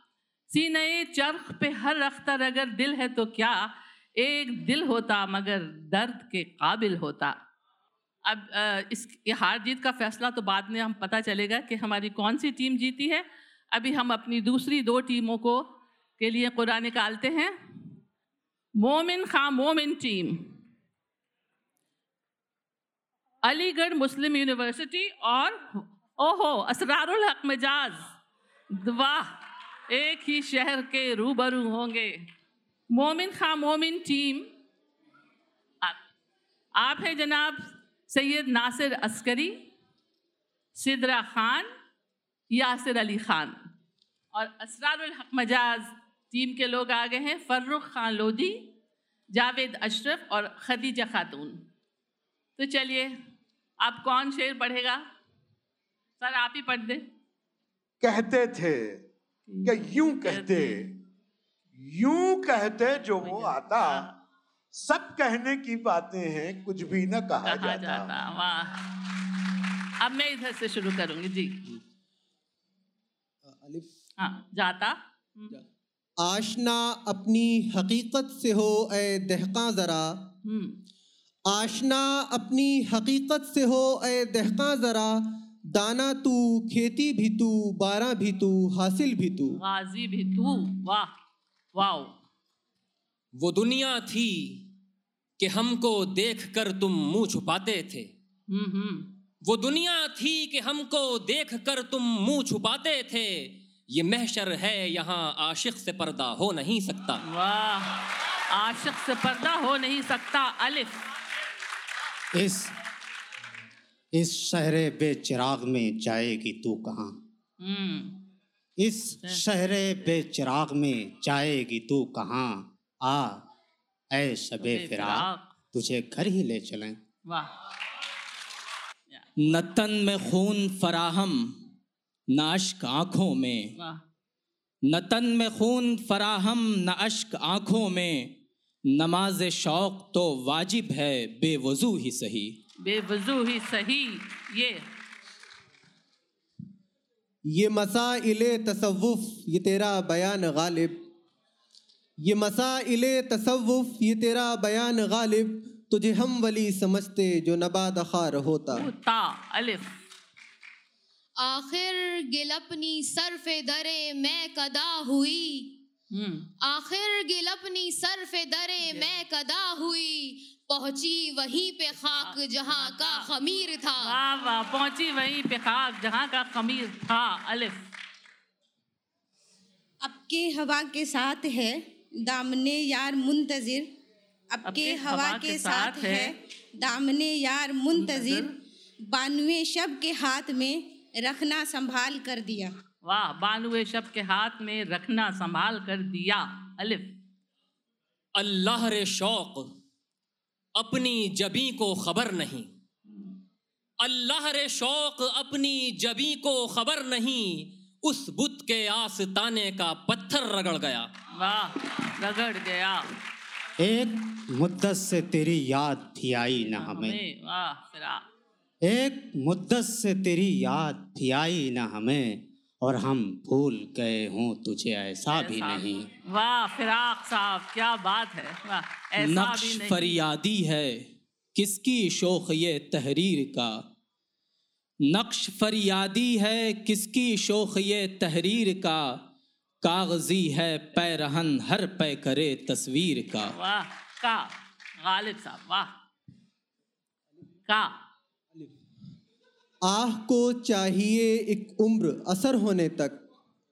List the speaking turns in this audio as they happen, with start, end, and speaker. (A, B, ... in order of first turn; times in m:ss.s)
0:00.5-0:07.4 A
0:08.3-0:15.7 A
0:16.2-0:17.5 A
0:18.8-0:20.4 A
0:23.4-0:28.0 A
0:28.7-0:29.3 A
0:29.9-0:32.3 A
0:32.9-0:34.4 A
0:36.8-0:39.5 A
0:40.8-0:41.7 A
0:42.5-0:43.6 A
0:44.3-0:48.6 A
0:49.3-0:51.6 A
0:52.6-0:53.1 A
0:53.8-0:55.0 A
0:56.2-0:57.0 A
0:58.0-0:59.0 B
0:59.5-1:00.8 A
0:59.6-1:00.9 B
1:01.8-1:04.1 B
1:03.2-1:04.1 A
1:04.7-1:08.2 B
1:07.5-1:09.2 A
1:10.0-1:11.6 A
1:14.2-1:15.6 A
1:16.2-1:20.0 C
1:20.5-1:20.7 A
1:21.5-1:25.1 C
1:25.8-1:29.6 C
1:29.5-1:31.1 A
1:31.8-1:32.1 A
1:33.4-1:34.6 D
1:35.4-1:38.1 D
1:38.5-1:39.1 A
1:39.4-1:47.2 D
1:47.3-1:51.0 A
1:52.4-1:52.7 E
1:54.1-1:57.1 E
1:57.6-1:58.2 A
1:58.8-2:03.5 E
2:04.1-2:07.0 E
2:04.6-2:05.5 A
2:09.4-2:11.5 F
2:12.3-2:13.7 F
2:14.9-2:18.3 F
2:18.9-2:22.5 F
2:22.8-2:24.8 A
2:27.5-2:30.9 C
2:32.2-2:38.8 C
2:38.7-2:39.9 A
2:41.4-2:45.7 G
2:46.1-2:46.5 A
2:46.6-2:54.1 G
2:48.9-2:49.2 A
2:52.0-2:53.3 A
2:54.0-2:57.8 A
3:00.0-3:03.9 H
3:04.5-3:08.5 H
3:04.7-3:06.3 A
3:08.0-3:08.5 A
3:09.0-3:12.8 H
3:13.0-3:17.1 A
3:18.4-3:19.6 D
3:20.8-3:22.7 D
3:24.0-3:31.1 D
3:31.3-3:33.0 A
3:33.8-3:37.2 E
3:36.7-3:38.2 A
3:38.8-3:46.1 E
3:45.3-3:50.2 A
3:49.2-3:51.0 F
3:51.6-3:53.8 F
3:55.1-3:59.2 F
3:59.8-4:03.6 F
4:03.5-4:04.5 A
4:05.0-4:05.9 A
4:07.7-4:07.9 A
4:09.9-4:13.2 C